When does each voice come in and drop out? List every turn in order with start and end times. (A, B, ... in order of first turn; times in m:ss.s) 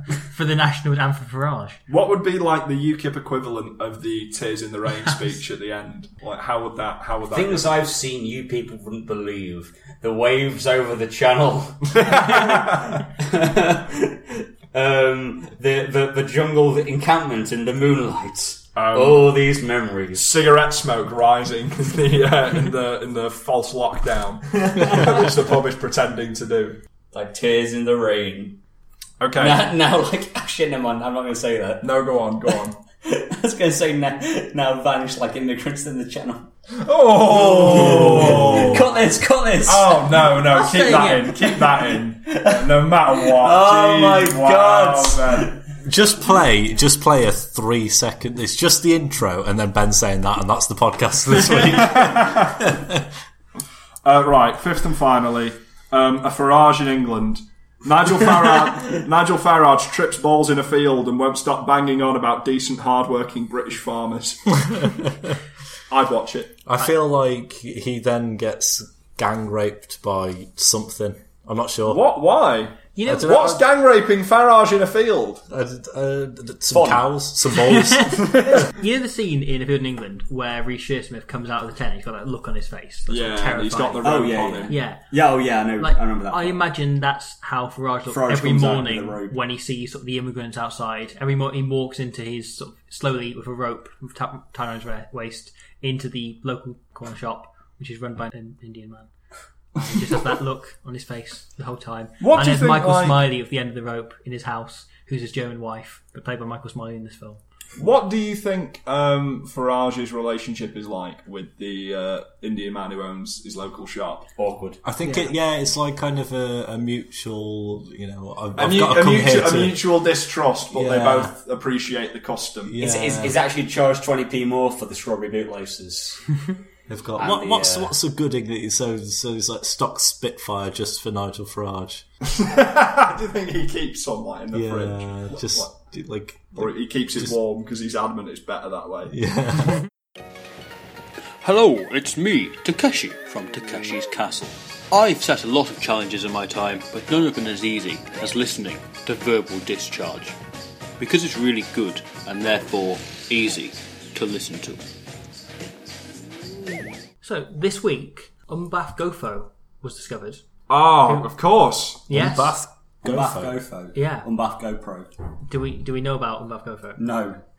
0:00.1-0:01.8 A
0:01.9-0:07.8 B
0:07.3-0:20.3 C
0:11.9-0:13.0 B
0:18.8-0:19.3 B
0:20.2-0:26.8 B
0:24.7-0:25.2 C
0:27.1-0:28.6 C
0:29.2-0:29.7 B
0:29.4-0:36.5 C
0:31.8-0:32.8 B
0:36.8-0:38.9 B
0:37.2-0:40.3 C
0:38.0-0:38.8 D
0:39.6-0:45.6 B
0:40.5-0:41.5 A
0:41.4-0:45.6 C
0:45.8-0:53.1 D
0:51.8-0:52.6 B
0:54.0-1:05.1 B
1:05.9-1:06.6 B
1:06.6-1:12.0 D
1:11.9-1:15.4 B
1:12.9-1:13.5 A
1:13.0-1:13.6 D
1:15.5-1:18.5 D
1:16.7-1:17.1 C
1:17.6-1:24.1 A
1:18.2-1:18.6 B
1:23.1-1:24.8 B
1:24.0-1:26.6 C
1:24.7-1:25.0 A
1:25.8-1:39.1 A
1:28.1-1:29.4 C
1:39.8-1:47.4 A
1:42.2-1:43.2 B
1:47.8-1:54.3 B
1:54.4-1:54.8 C
1:54.8-2:00.0 D
1:55.0-1:55.3 A
1:58.6-2:02.8 B
2:00.7-2:01.3 D
2:02.6-2:03.4 D
2:02.8-2:06.2 C
2:06.9-2:12.0 D
2:07.2-2:07.9 C
2:12.4-2:15.7 B
2:14.5-2:17.3 D
2:16.6-2:19.2 B
2:19.1-2:19.8 D
2:21.4-2:30.4 E
2:31.0-2:34.8 E
2:37.2-2:40.4 A
2:40.7-2:42.1 B
2:41.0-2:41.3 A
2:42.1-2:42.5 A
2:42.1-2:43.5 D
2:43.0-2:45.1 C
2:43.9-2:44.2 A
2:45.5-2:47.0 A
2:47.0-2:47.4 C